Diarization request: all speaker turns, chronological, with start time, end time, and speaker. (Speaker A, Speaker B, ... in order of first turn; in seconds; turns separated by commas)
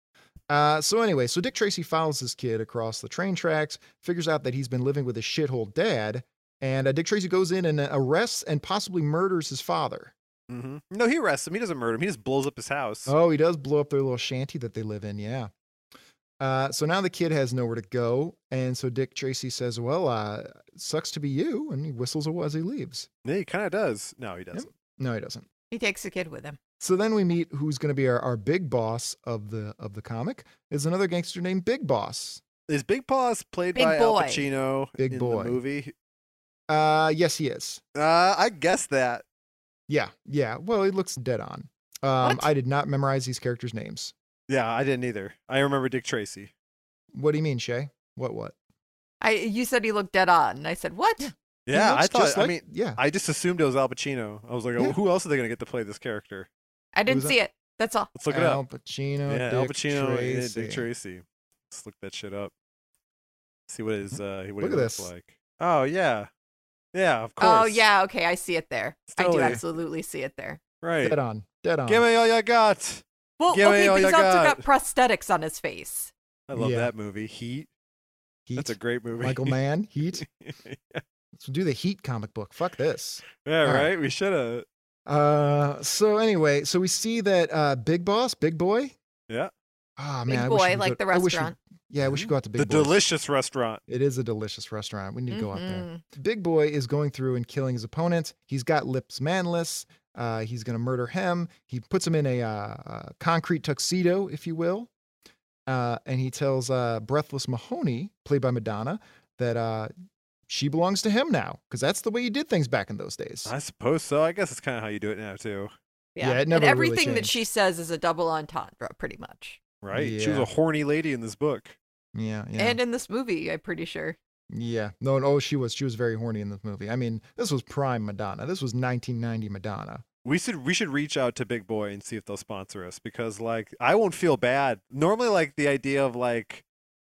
Speaker A: 0.5-10.1, Speaker B: 10.5-13.1, Speaker A: 13.1-15.5, Speaker A: 16.4-23.1, Speaker B: 23.2-24.7, Speaker A: 24.5-25.4, Speaker C: 25.7-26.6, Speaker A: 26.8-32.4, Speaker B: 32.7-35.9, Speaker C: 33.7-34.4, Speaker A: 35.0-35.6, Speaker A: 36.7-37.8, Speaker B: 37.9-39.2, Speaker A: 39.9-44.1, Speaker B: 44.5-46.5, Speaker A: 47.1-48.5, Speaker C: 49.2-51.3, Speaker A: 51.2-53.0, Speaker B: 51.7-56.5, Speaker C: 56.9-58.1, Speaker A: 57.1-57.4, Speaker B: 58.1-58.6, Speaker A: 58.3-60.8, Speaker B: 59.3-62.5, Speaker B: 63.7-66.3, Speaker A: 64.1-65.1, Speaker B: 66.9-67.8, Speaker C: 67.4-70.6, Speaker B: 69.1-69.6, Speaker B: 70.8-71.2, Speaker A: 71.0-72.0, Speaker B: 71.9-74.6, Speaker C: 73.4-76.1, Speaker B: 76.5-77.7, Speaker A: 76.5-76.9, Speaker A: 78.5-80.2, Speaker B: 78.5-79.6, Speaker B: 80.2-81.0, Speaker A: 81.4-83.9, Speaker B: 83.4-84.7, Speaker A: 85.0-88.9, Speaker A: 90.0-93.0, Speaker C: 90.3-91.5, Speaker B: 92.0-93.8, Speaker A: 93.9-104.9, Speaker C: 95.3-96.0, Speaker A: 105.7-109.9, Speaker A: 110.5-113.5, Speaker B: 113.5-115.7, Speaker C: 116.2-119.6, Speaker A: 116.2-117.4, Speaker B: 119.8-121.8, Speaker A: 119.9-120.5, Speaker A: 122.1-122.8, Speaker C: 122.6-124.2, Speaker A: 124.5-130.0, Speaker B: 130.2-136.6